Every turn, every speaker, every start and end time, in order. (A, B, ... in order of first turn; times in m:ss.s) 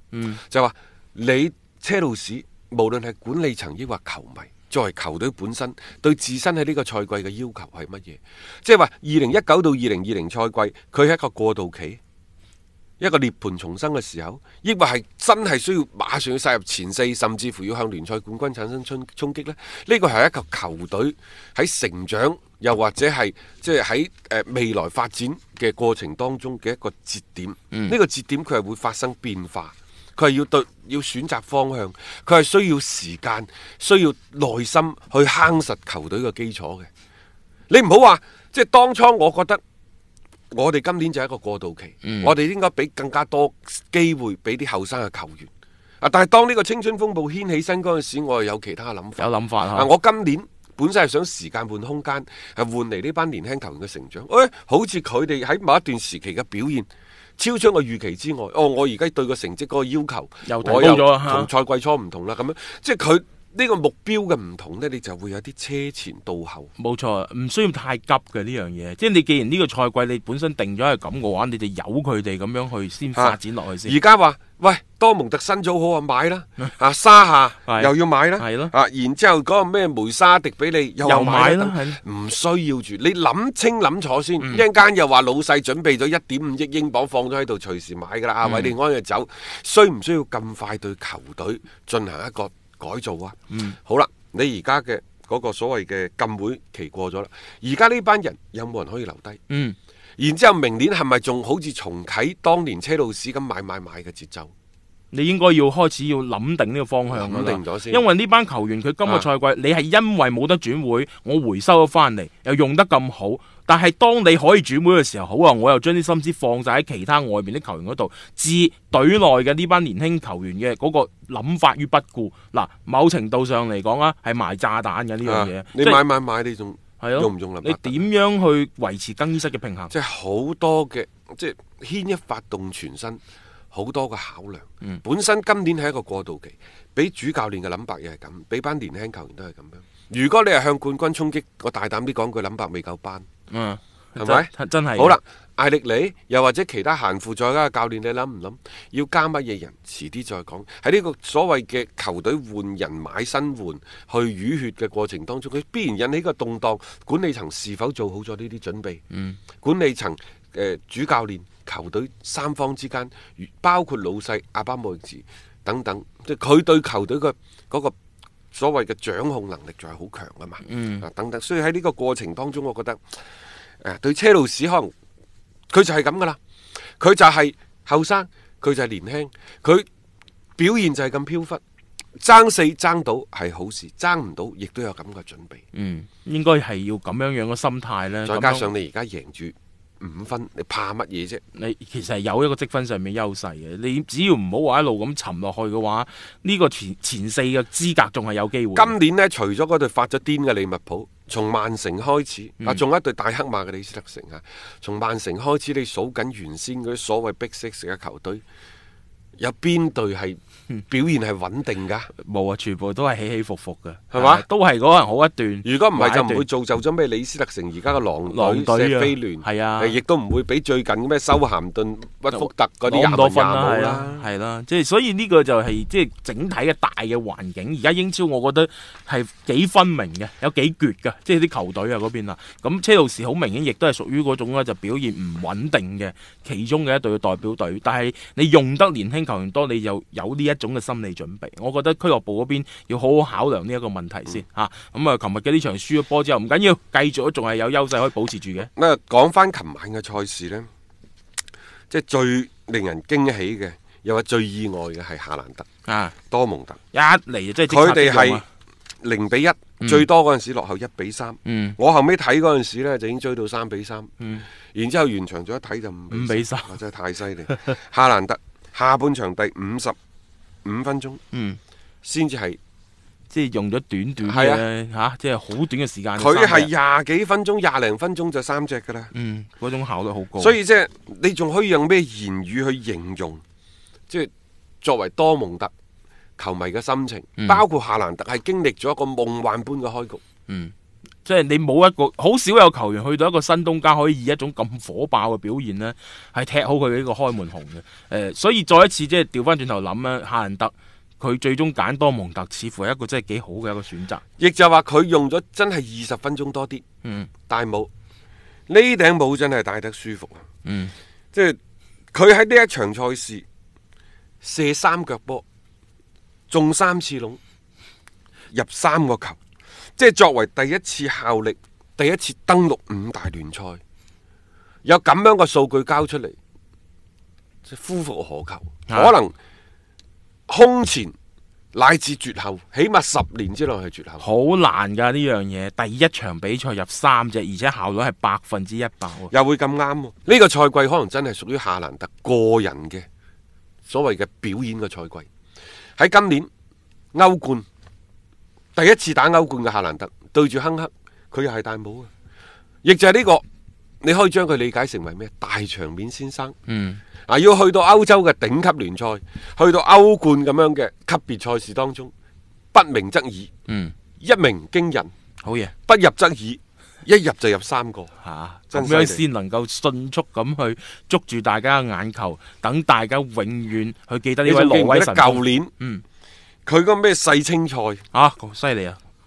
0:00.1-0:00.4 A
0:00.4-0:12.0 B
0:13.0-0:36.9 B
0:37.7-0:39.6 B
0:40.5-0:45.5 B
0:42.0-0:42.3 A
0:46.0-0:56.9 B
0:49.2-0:49.9 A
0:57.4-1:06.7 B
1:00.4-1:01.5 A
1:06.8-1:13.9 A
1:13.1-1:39.4 B
1:17.7-1:18.7 A
1:21.0-1:22.0 A
1:28.4-1:28.7 A
1:33.5-1:33.8 A
1:39.5-1:39.8 A
1:40.2-1:44.5 B
1:45.1-2:06.0 A
1:47.1-1:48.0 B
2:05.2-2:08.0 B
2:07.0-2:09.9 A
2:09.9-2:13.2 B
2:13.7-2:23.2 B
2:23.5-2:25.2 A
2:24.2-2:39.0 B
2:39.1-2:39.4 A
2:39.6-2:47.9 B
2:48.5-2:53.2 B
2:50.6-2:51.0 A
2:53.8-2:54.9 B
2:55.7-2:56.4 B
2:57.0-2:59.9 B
3:00.6-3:01.6 B
3:02.2-3:05.6 B
3:05.7-3:08.7 A
3:08.2-3:11.4 B
3:11.6-3:19.0 A
3:18.8-3:28.4 B
3:29.4-3:32.1 B
3:32.2-3:36.4 A
3:34.1-3:34.5 B
3:35.6-3:44.2 B
3:38.3-3:40.0 A
3:42.3-4:08.7 A
4:08.6-4:10.7 B
4:11.9-4:15.7 B
4:15.9-4:16.1 A
4:16.3-4:16.8 B
4:16.9-4:18.4 A
4:17.7-4:18.4 B
4:19.0-4:24.1 B
4:19.8-4:20.1 A
4:21.4-4:21.8 A
4:24.2-4:24.4 A
4:24.7-4:29.9 B
4:26.1-4:26.7 A
4:27.5-4:27.8 A
4:30.6-4:31.2 B
4:31.3-4:31.6 A
4:32.0-4:32.6 B
4:33.3-4:36.7 A
4:34.2-4:34.6 B
4:36.2-4:39.1 B
4:39.1-4:40.6 A
4:40.4-4:43.4 B
4:44.8-4:45.7 B
4:46.4-4:50.2 B
4:47.4-4:47.6 A
4:50.5-4:50.7 A
4:51.2-5:04.2 A
5:04.4-5:06.8 B
5:07.0-5:07.3 A
5:07.5-5:07.9 B
5:08.7-5:10.4 B
5:10.6-5:10.9 A
5:12.1-5:13.4 B
5:14.4-5:15.4 B
5:16.5-5:17.4 B
5:18.5-5:19.4 B
5:20.0-5:23.8 B
5:24.8-5:26.4 B
5:27.6-5:29.4 B
5:28.9-5:29.1 A
5:30.5-5:31.1 B
5:31.7-5:34.2 B
5:34.2-5:39.3 A
5:39.3-5:43.0 B
5:43.9-5:45.3 B
5:46.0-5:46.5 B
5:47.1-5:47.6 B
5:48.8-5:52.1 B
5:52.8-5:53.4 B
5:54.0-5:56.5 B
5:56.7-5:57.0 A
5:57.3-6:02.1 B
6:02.7-6:03.5 B
6:03.7-6:03.9 A
6:04.2-6:05.1 B
6:05.4-6:05.7 A
6:05.9-6:08.1 B
6:08.2-6:16.0 A
6:08.7-6:09.2 B
6:14.4-6:15.7 B
6:16.6-6:18.0 B
6:18.1-6:19.0 A